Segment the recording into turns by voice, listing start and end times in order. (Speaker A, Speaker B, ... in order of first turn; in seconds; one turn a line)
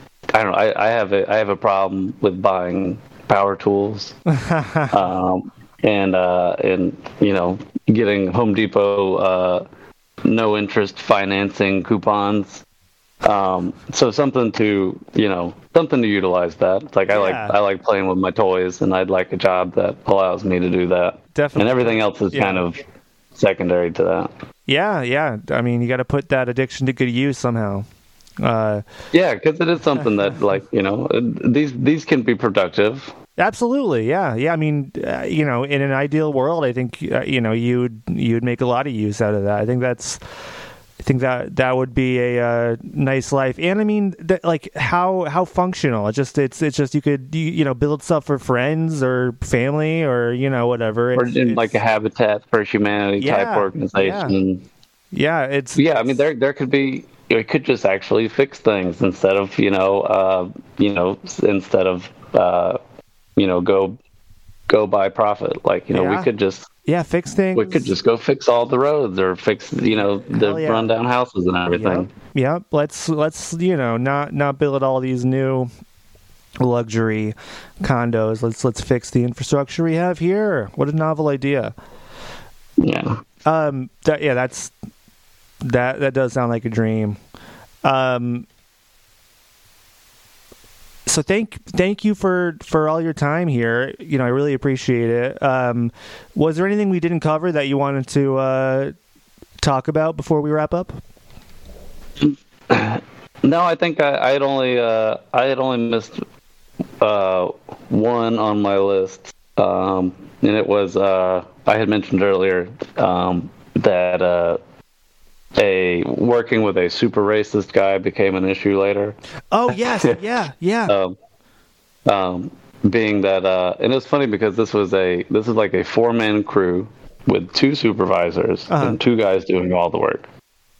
Speaker A: 0.3-4.2
Speaker B: 4.3-5.0
Speaker A: 4.9-9.6
Speaker A: 10.2-12.6
Speaker A: 13.2-22.8
Speaker B: 17.1-17.6
Speaker B: 21.4-22.6
Speaker A: 23.4-24.3
Speaker B: 24.7-27.9
Speaker B: 28.4-28.9
Speaker A: 29.1-33.1
Speaker B: 33.4-40.2
Speaker B: 41.0-51.8
Speaker A: 51.1-54.7
Speaker B: 53.2-54.4
Speaker B: 55.1-55.9
Speaker A: 55.8-62.8
Speaker A: 63.4-64.0
Speaker A: 64.7-66.7
Speaker B: 65.9-66.3
Speaker B: 66.9-67.9
Speaker A: 67.5-72.1
Speaker B: 69.9-70.9
Speaker B: 71.7-75.7
Speaker B: 76.6-81.7
Speaker A: 82.8-83.2
Speaker B: 83.5-84.7
Speaker B: 85.6-87.2
Speaker B: 87.8-88.5
Speaker B: 91.1-98.9
Speaker B: 99.6-101.0
Speaker A: 102.2-106.2
Speaker A: 107.0-114.6
Speaker A: 115.6-119.2
Speaker B: 119.5-120.9
Speaker A: 119.7-120.2
Speaker A: 120.9-121.2
Speaker A: 122.1-130.3
Speaker B: 128.7-129.0